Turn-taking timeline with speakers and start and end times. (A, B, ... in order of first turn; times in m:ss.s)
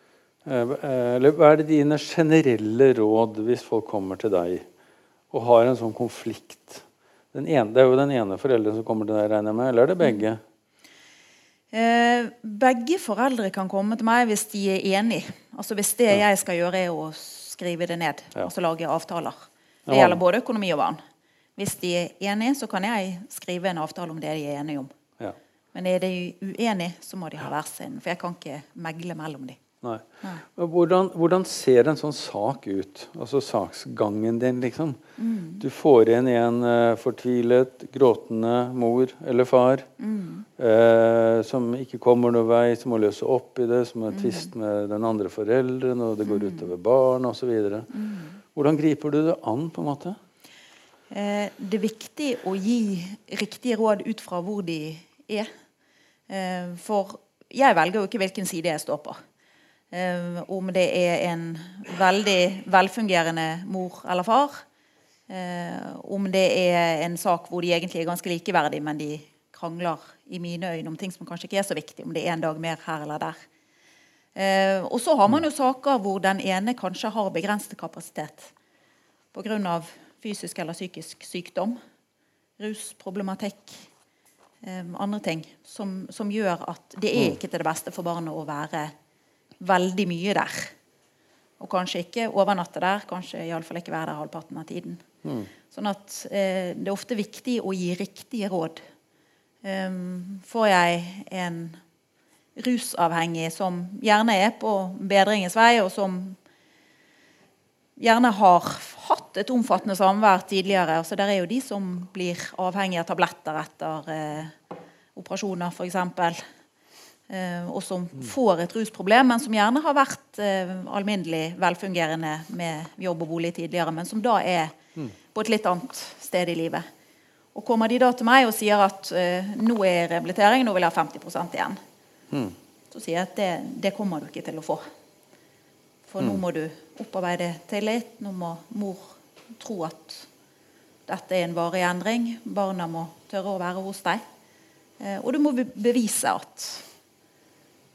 0:00.4-0:04.6 A
0:05.3-0:10.4 A
0:11.7-0:21.0 B
0:19.9-0:20.2 A
0:21.6-0:24.9 B
0:25.7-0:29.6 B
0:29.8-0:35.0 A
0:35.2-0:35.6 B
0:35.6-0:39.9 A
0:40.0-0:40.5 B
0:40.6-0:47.9 A
0:44.1-0:44.5 B
0:46.3-0:46.7 B
0:47.9-0:48.4 B
0:48.5-0:50.2 A
0:51.1-0:55.5 B
0:56.3-0:59.2 B
0:59.9-1:04.6 B
1:05.3-1:13.4 B
1:14.4-1:18.5 B
1:19.3-1:21.8 B
1:22.6-1:23.9 B
1:24.6-1:28.9 B
1:29.6-1:30.7 B
1:31.6-1:35.0 B
1:35.2-1:35.5 A
1:35.7-1:38.8 B
1:39.6-1:41.8 B
1:42.6-1:46.4 B
1:48.0-1:54.6 B
1:55.2-1:56.4 B
1:57.3-2:04.8 B
2:05.3-2:06.8 B
2:07.5-2:11.8 B
2:12.9-2:14.8 B
2:16.1-2:20.3 B
2:21.1-2:24.2 B
2:25.0-2:26.9 B